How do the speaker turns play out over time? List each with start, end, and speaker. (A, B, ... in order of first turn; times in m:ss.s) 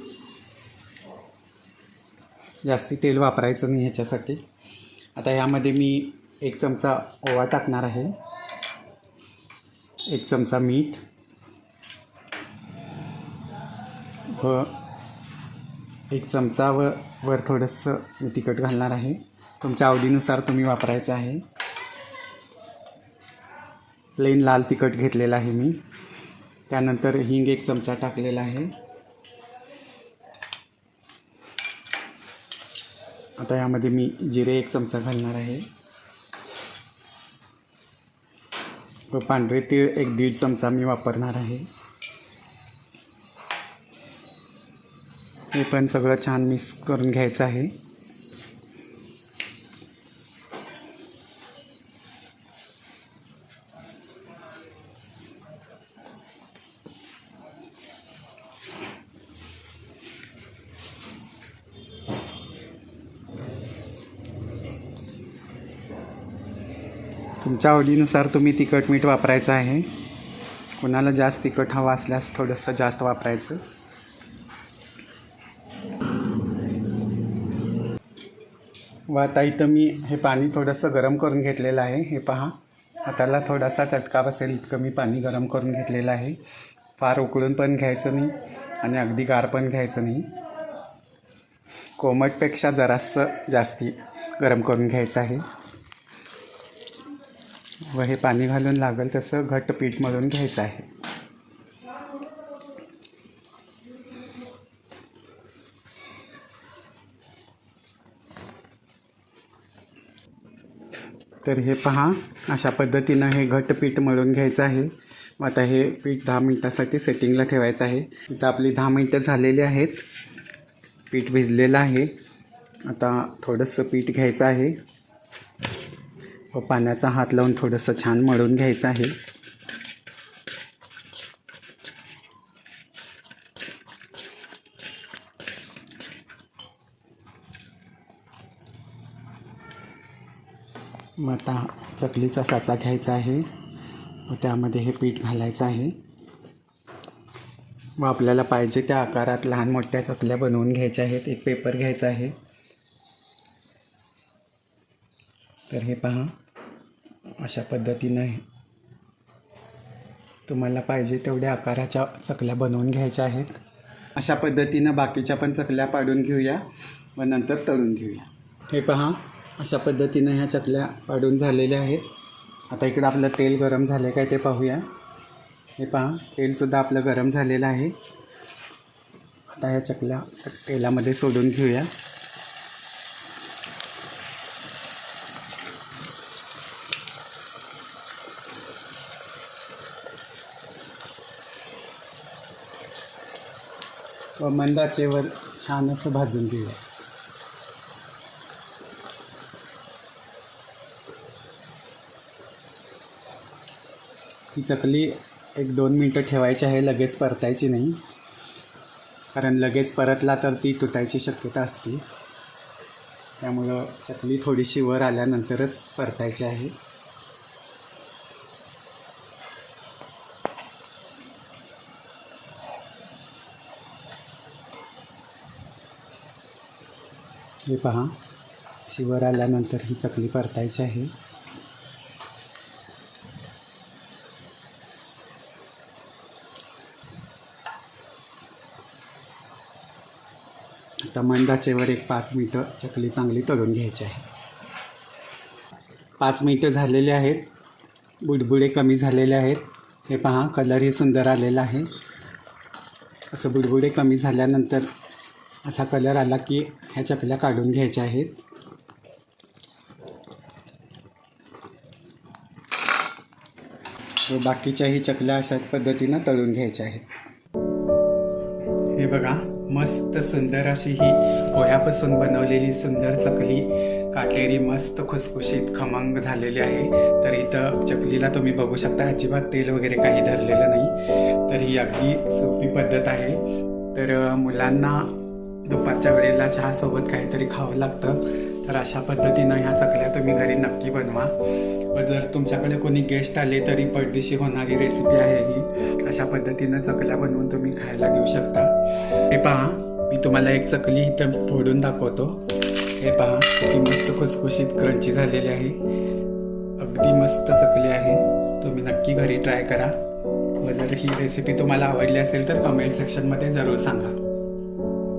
0:02.6-0:04.4 A
0:05.2-0:08.2 A
0:10.1-0:11.0 A
0:14.3-0:14.8 A
0:16.1-0:21.4 A
0:24.2-0:25.8 A
0:26.7-0:28.7 A
0:33.4-0:35.7 A
0:39.1-0:41.7 A
0:45.5-0:47.7 A
1:07.4-1:09.9 A
1:10.8-1:13.6 A
1:19.1-1:26.4 A
1:27.0-1:30.3 A
1:32.0-1:35.4 A
1:37.9-1:40.9 A
1:51.4-2:00.0 A
2:01.1-2:02.1 A
2:02.8-2:04.8 A
2:06.5-2:09.2 A
2:21.2-2:23.5 A
2:24.3-2:26.0 A
2:28.0-2:32.4 A
2:35.7-2:36.4 A
2:37.4-2:38.4 A
2:40.5-2:43.6 A
2:44.2-2:46.6 A
2:47.2-2:52.1 A
2:52.7-2:54.9 A
2:55.8-2:58.0 A
2:59.5-3:01.9 A
3:14.4-3:16.8 A
3:24.5-3:28.0 A
3:29.3-3:32.0 A
3:33.4-3:36.8 A
3:47.7-3:48.2 A
3:48.8-3:51.1 A
4:01.0-4:04.3 A
4:06.2-4:07.5 A
4:08.2-4:11.9 A
4:13.3-4:14.9 A
4:15.6-4:18.4 A
4:24.2-4:27.1 A
4:28.8-4:43.4 A
4:43.9-5:02.4 A
5:03.0-5:05.8 A
5:06.8-5:10.0 A
5:10.6-5:14.2 A